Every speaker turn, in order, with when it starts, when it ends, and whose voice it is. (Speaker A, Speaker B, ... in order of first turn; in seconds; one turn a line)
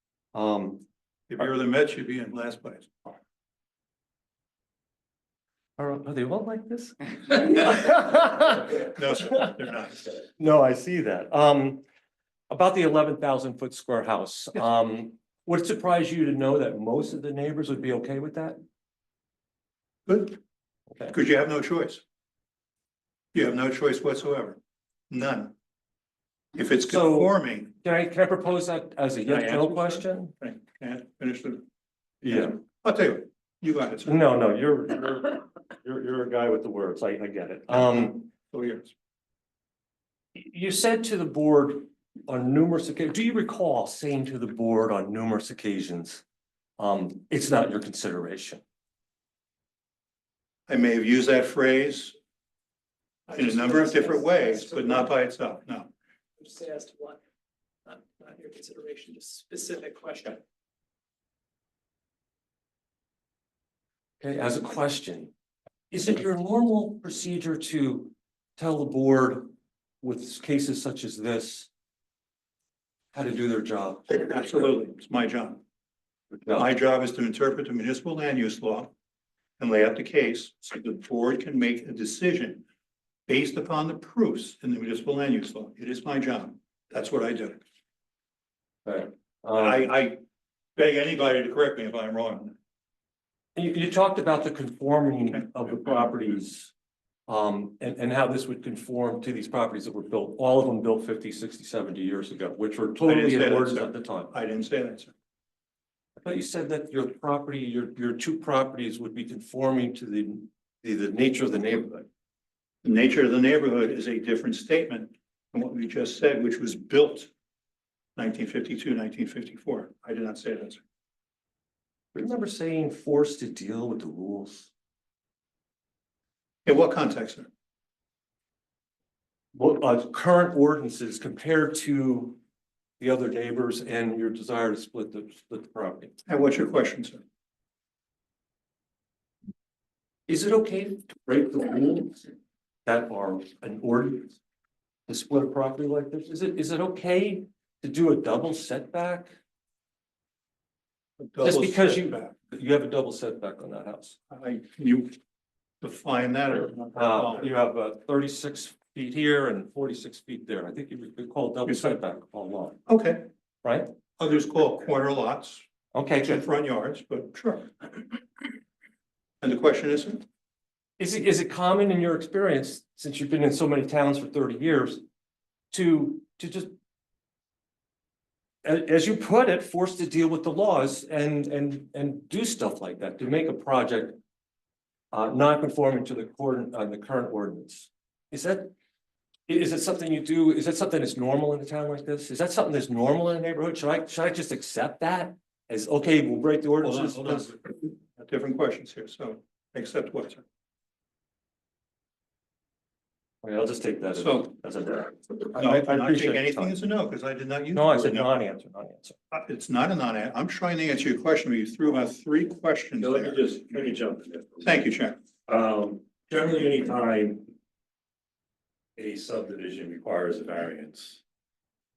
Speaker A: 0.3-0.8
Speaker B: 1.3-3.1
Speaker A: 5.8-8.8
Speaker B: 8.7-10.2
Speaker A: 10.4-11.8
Speaker A: 12.5-18.6
Speaker B: 20.1-20.4
Speaker B: 21.1-22.0
Speaker B: 23.3-24.6
Speaker B: 25.1-25.5
Speaker B: 26.5-27.7
Speaker A: 26.9-27.3
Speaker A: 27.8-30.3
Speaker B: 29.3-31.6
Speaker A: 32.2-32.5
Speaker B: 32.3-34.2
Speaker A: 34.0-38.3
Speaker B: 38.5-38.9
Speaker A: 40.3-46.2
Speaker A: 46.8-48.6
Speaker B: 50.7-52.1
Speaker B: 53.3-55.9
Speaker C: 56.4-57.2
Speaker C: 57.9-60.4
Speaker A: 64.2-65.3
Speaker A: 65.9-69.5
Speaker A: 70.0-71.7
Speaker A: 73.1-74.7
Speaker B: 74.1-75.6
Speaker B: 76.5-78.9
Speaker B: 79.6-82.6
Speaker B: 83.3-87.6
Speaker A: 88.8-89.9
Speaker B: 89.5-90.2
Speaker B: 90.8-92.5
Speaker A: 93.5-96.7
Speaker A: 97.3-104.3
Speaker B: 103.0-105.1
Speaker A: 106.2-112.1
Speaker B: 112.8-117.3
Speaker B: 118.2-120.8
Speaker A: 122.1-124.7
Speaker B: 126.7-127.5
Speaker A: 129.5-132.4
Speaker A: 133.0-136.2
Speaker B: 136.2-137.2
Speaker A: 140.3-142.3
Speaker A: 142.8-144.4
Speaker A: 145.1-149.3
Speaker B: 151.2-152.3
Speaker A: 151.4-154.2
Speaker B: 154.3-155.1
Speaker B: 155.8-157.5
Speaker A: 156.9-162.8
Speaker B: 161.7-162.0
Speaker B: 162.9-163.3
Speaker A: 163.6-163.9
Speaker B: 164.2-165.6
Speaker A: 165.9-166.4
Speaker B: 166.2-167.7
Speaker B: 169.4-170.2
Speaker A: 171.0-175.0
Speaker A: 175.7-176.7
Speaker A: 178.6-184.2
Speaker A: 185.1-188.7
Speaker A: 189.5-197.5
Speaker B: 196.8-200.4
Speaker A: 203.4-206.7
Speaker B: 204.2-204.5
Speaker B: 205.5-208.3
Speaker A: 207.7-209.2
Speaker B: 209.3-213.4
Speaker D: 213.0-214.8
Speaker B: 214.6-215.2
Speaker D: 215.5-217.5
Speaker D: 219.0-221.2